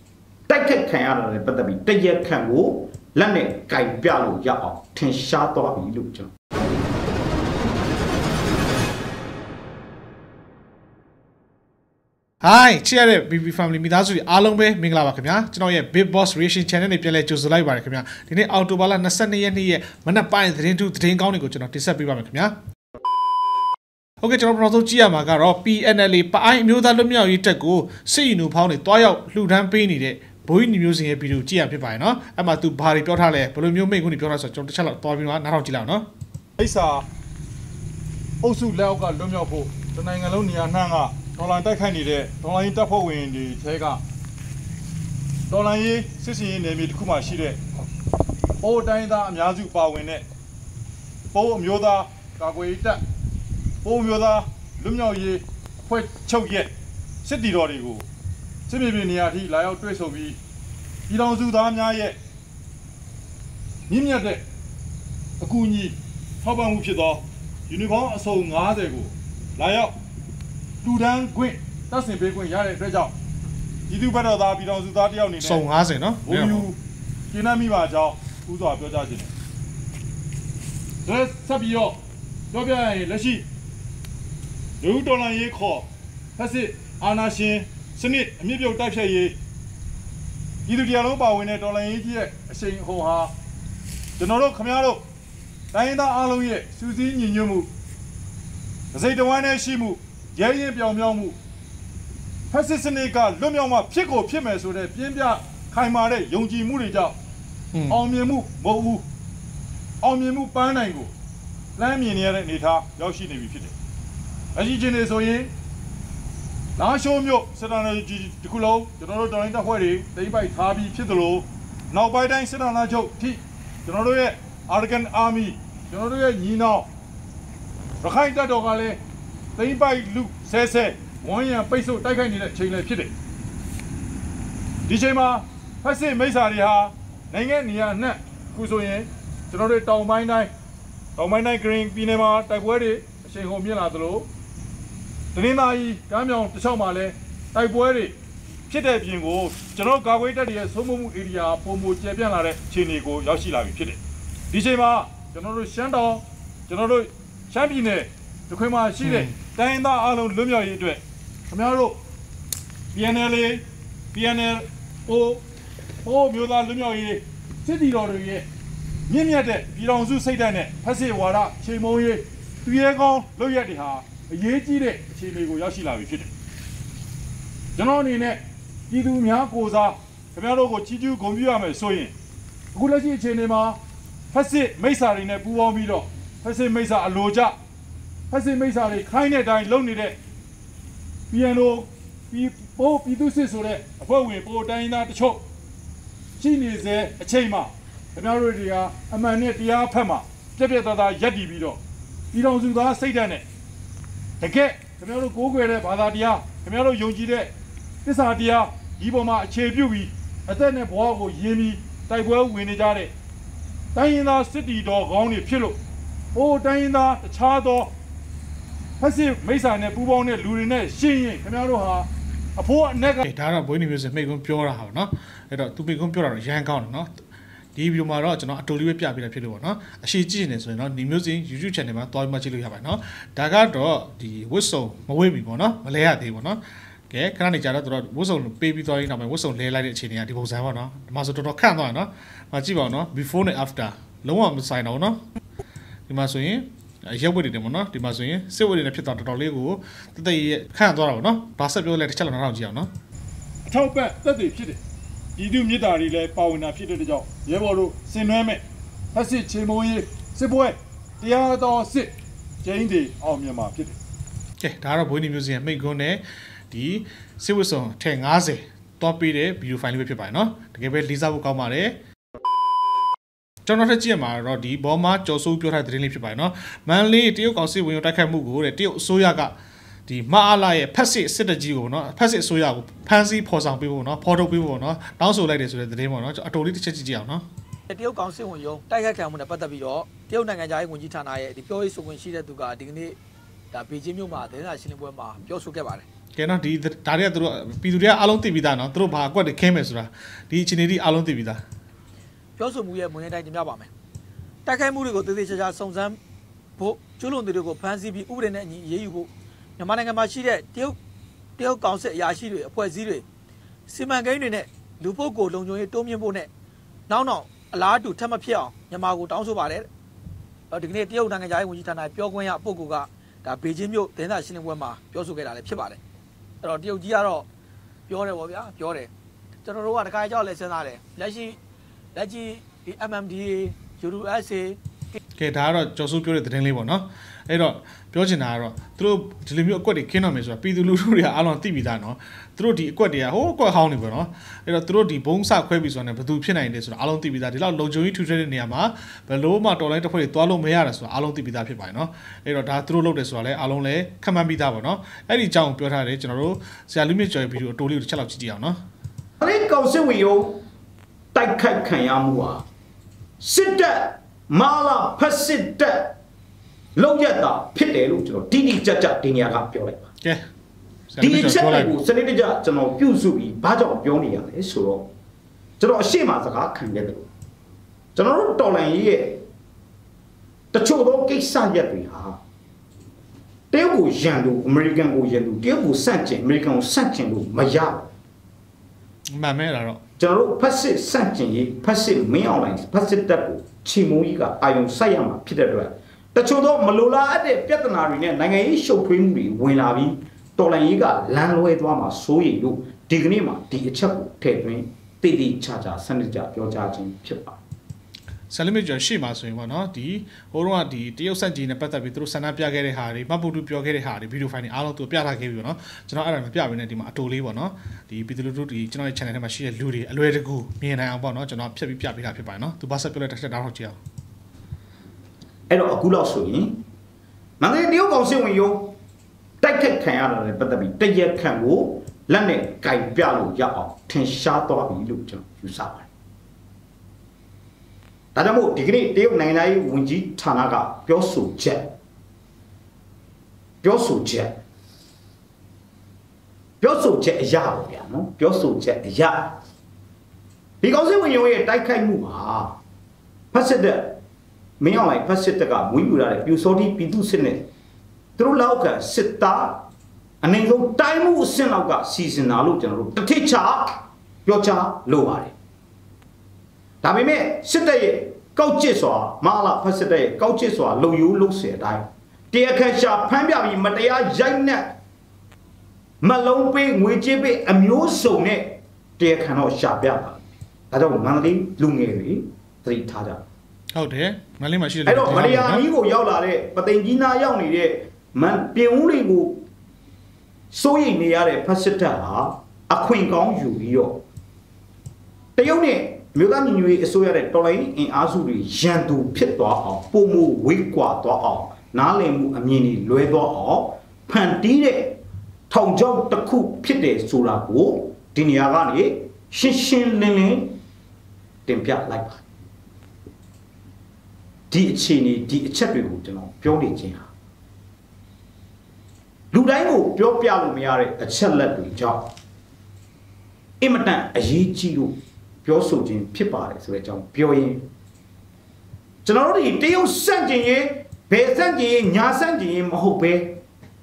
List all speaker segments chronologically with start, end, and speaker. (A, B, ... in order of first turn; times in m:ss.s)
0:00.5-0:06.3 A
0:12.4-0:22.5 B
0:24.2-0:36.1 B
0:36.6-0:37.1 C
0:38.4-0:44.0 C
0:45.5-0:47.6 C
0:48.6-0:50.2 C
0:51.3-0:53.0 C
0:53.8-0:56.7 C
0:57.2-0:58.0 C
0:58.7-1:00.4 C
1:01.1-1:02.2 C
1:03.9-1:04.4 C
1:05.4-1:10.0 C
1:10.8-1:13.1 C
1:13.9-1:15.6 C
1:15.4-1:16.7 B
1:16.2-1:16.8 C
1:17.3-1:19.3 C
1:21.0-1:22.0 C
1:22.5-1:23.4 C
1:24.8-1:29.4 C
1:30.7-1:33.3 C
1:34.2-1:35.0 C
1:35.7-1:37.7 C
1:38.9-1:41.4 C
1:42.5-1:47.2 C
1:47.7-1:48.0 B
1:47.9-1:49.0 C
1:50.0-1:51.1 C
1:51.8-1:53.7 C
1:54.6-1:55.5 C
1:56.8-2:06.9 C
2:08.0-2:09.0 C
2:09.6-2:13.1 C
2:14.9-2:20.5 C
2:21.2-2:24.3 C
2:25.3-2:28.1 C
2:28.7-2:34.0 C
2:34.5-2:42.0 C
2:39.0-2:39.4 B
2:42.9-2:45.4 C
2:46.0-2:48.5 C
2:49.1-2:56.3 C
2:57.8-3:02.1 C
3:02.7-3:03.8 C
3:04.3-3:07.6 C
3:08.3-3:10.2 C
3:11.3-3:15.4 C
3:16.4-3:21.8 C
3:22.3-3:23.4 C
3:24.4-3:27.5 C
3:28.0-3:33.1 C
3:33.9-3:35.8 C
3:36.3-3:37.9 C
3:39.0-3:43.2 C
3:43.2-3:47.1 B
3:47.8-4:05.2 B
4:06.1-4:12.9 B
4:13.6-4:14.8 C
4:15.4-4:24.0 C
4:24.6-4:32.0 B
4:33.6-4:39.5 B
4:40.1-4:47.4 B
4:47.9-4:53.2 D
4:53.7-4:56.1 D
4:56.4-5:01.6 B
5:02.6-5:03.9 D
5:04.6-5:06.2 D
5:06.8-5:11.0 D
5:11.6-5:13.2 D
5:13.9-5:16.5 D
5:17.1-5:19.9 D
5:20.7-5:26.0 D
5:26.6-5:27.5 D
5:28.1-5:29.1 D
5:29.6-5:31.6 D
5:32.2-5:35.2 D
5:35.4-5:58.8 B
5:59.4-6:00.6 A
6:01.3-6:02.7 A
6:03.4-6:06.1 A
6:07.0-6:10.1 A
6:11.1-6:12.0 B
6:11.2-6:15.1 A
6:15.8-6:17.3 A
6:18.2-6:19.4 A
6:20.7-6:22.4 A
6:23.7-6:28.1 A
6:29.3-6:30.0 B
6:30.2-6:47.6 A
6:48.5-7:04.0 B
7:05.7-7:06.8 A
7:07.6-7:09.0 A
7:09.6-7:16.1 A
7:18.4-7:21.9 A
7:23.8-7:24.6 A
7:26.8-7:29.5 A
7:30.8-7:32.8 A
7:33.5-7:34.2 A
7:34.8-7:37.7 A
7:38.4-7:39.8 A
7:40.4-7:45.5 A
7:47.0-7:55.0 A
7:56.2-8:03.5 A
8:03.9-8:05.8 B
8:05.1-8:09.6 A
8:10.7-8:14.2 A
8:15.6-8:30.8 A
8:31.7-8:32.4 A
8:34.7-8:37.3 A
8:39.5-8:42.3 A
8:43.8-8:47.9 A
8:49.2-8:53.6 A